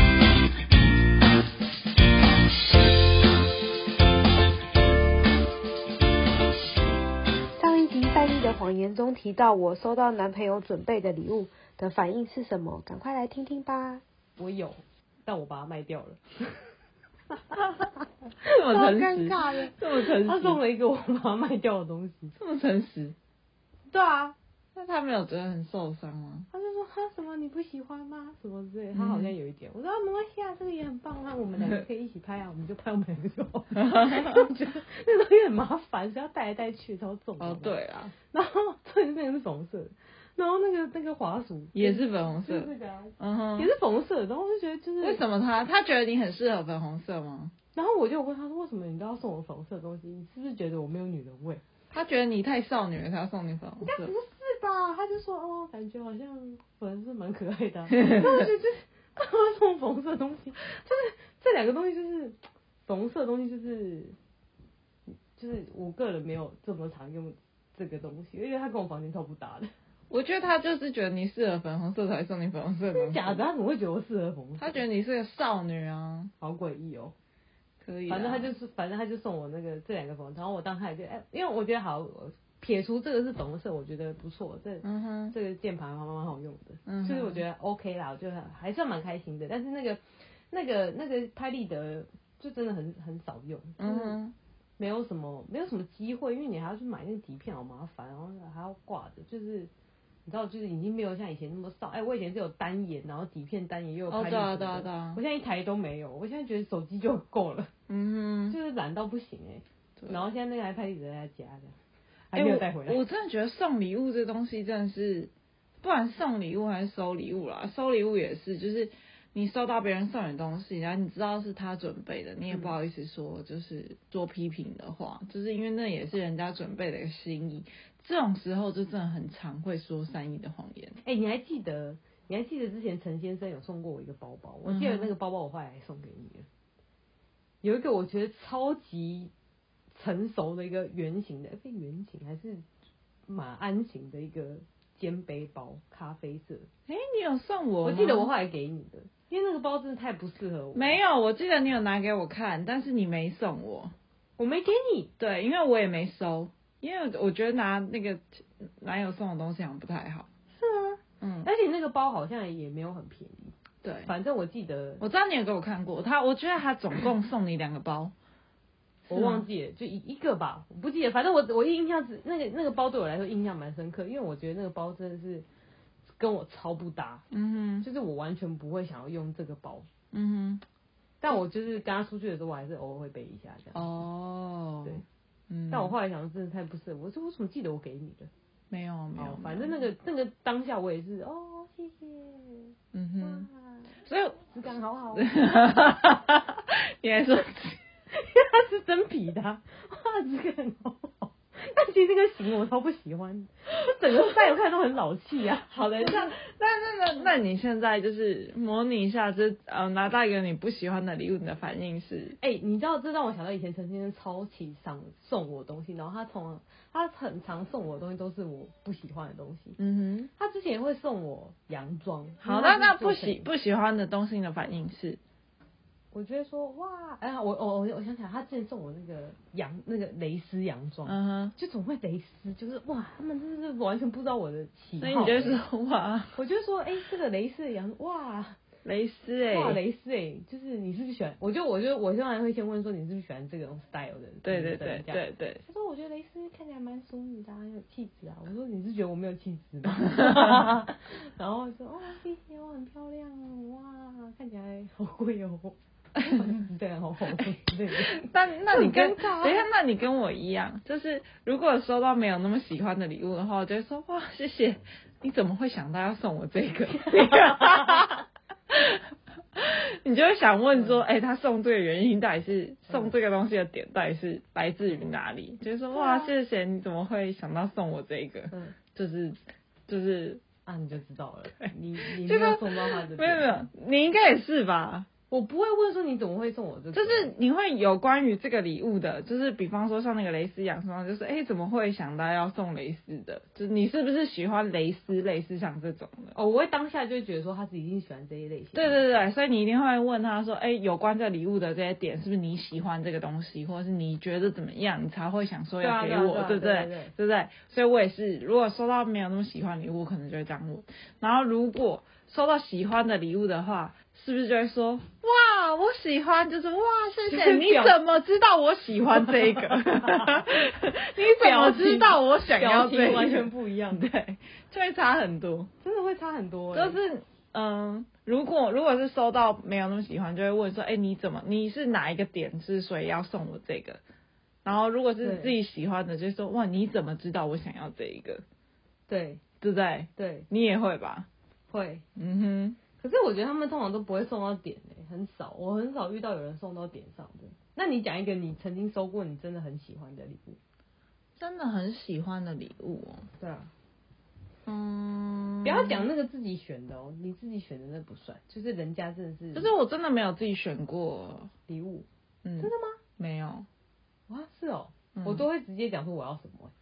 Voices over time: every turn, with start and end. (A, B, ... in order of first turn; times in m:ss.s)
0:07.6-0:14.0 A
0:14.4-0:16.7 B
0:18.4-0:20.6 C
0:18.8-0:22.4 B
0:18.8-0:19.2 A
0:22.4-0:23.2 C
0:23.9-0:24.4 B
0:24.8-0:26.5 C
0:26.5-0:37.8 B
0:28.9-0:29.4 C
0:33.9-0:34.4 C
0:37.4-0:38.1 C
0:38.3-0:45.2 B
0:41.8-0:43.7 C
0:45.0-0:47.5 C
0:47.7-0:51.6 B
0:51.9-0:54.1 C
0:53.8-1:04.2 B
0:57.9-0:58.5 C
1:05.4-1:09.7 B
1:10.1-1:13.4 C
1:12.9-1:14.8 B
1:14.6-1:16.3 C
1:16.4-1:17.1 B
1:17.8-1:18.5 C
1:18.1-1:34.2 B
1:24.8-1:25.4 C
1:26.9-1:27.5 C
1:33.8-1:34.3 C
1:34.8-1:39.7 B
1:40.2-1:47.7 B
1:44.1-1:45.2 C
1:47.9-1:48.6 C
1:48.5-1:51.8 B
1:50.0-1:50.2 C
1:52.3-1:53.0 B
1:52.3-1:55.3 C
1:55.8-2:11.0 C
2:11.0-2:16.5 B
2:14.6-2:15.1 C
2:17.6-2:19.3 B
2:19.9-2:22.6 B
2:23.3-2:26.7 B
2:26.9-2:28.3 C
2:27.8-2:31.0 B
2:30.7-2:33.9 C
2:34.4-2:35.1 B
2:35.2-2:40.3 C
2:40.5-2:43.5 B
2:41.2-2:41.5 C
2:43.8-2:44.1 C
2:44.1-2:45.0 B
2:45.0-2:48.1 C
2:49.1-2:55.5 B
2:49.1-2:49.5 C
2:56.2-2:57.2 B
2:57.3-2:57.9 C
2:57.8-2:59.9 B
3:00.1-3:00.6 C
3:01.2-3:04.0 B
3:03.7-3:06.0 C
3:05.7-3:08.3 B
3:08.7-3:09.8 C
3:09.2-3:14.0 B
3:12.9-3:13.5 C
3:14.0-3:14.4 C
3:14.5-3:15.4 B
3:15.1-3:17.8 C
3:18.1-3:26.3 B
3:25.7-3:32.4 C
3:32.4-3:39.8 B
3:39.8-3:40.3 C
3:40.4-3:43.5 B
3:42.4-3:45.2 C
3:46.1-3:55.6 B
3:51.0-3:51.6 C
3:55.0-3:56.4 C
3:56.3-3:58.6 B
3:58.8-3:59.8 C
3:59.5-4:19.7 B
4:04.4-4:05.6 C
4:16.2-4:16.4 C
4:18.0-4:29.0 C
4:29.6-4:40.4 C
4:35.9-4:36.3 B
4:40.7-4:43.7 B
4:41.6-4:45.1 C
4:45.3-4:47.3 B
4:46.9-4:56.4 C
4:56.4-4:59.0 B
4:58.8-5:25.7 C
5:05.8-5:07.1 B
5:17.3-5:18.0 B
5:19.7-5:20.2 B
5:21.2-5:24.0 B
5:25.8-5:27.0 B
5:26.7-5:34.0 C
5:34.6-5:38.4 C
5:35.2-5:35.6 B
5:39.1-5:39.4 B
5:39.6-5:41.3 C
5:40.2-5:40.5 B
5:41.7-5:42.0 B
5:42.2-5:42.8 C
5:43.0-5:50.6 B
5:51.4-5:53.3 C
5:53.4-5:53.7 B
5:54.7-5:56.1 C
5:55.6-5:59.7 B
5:59.5-6:01.5 C
6:01.7-6:02.1 B
6:02.4-6:03.7 C
6:02.6-6:03.0 B
6:04.3-6:06.7 B
6:05.2-6:05.5 C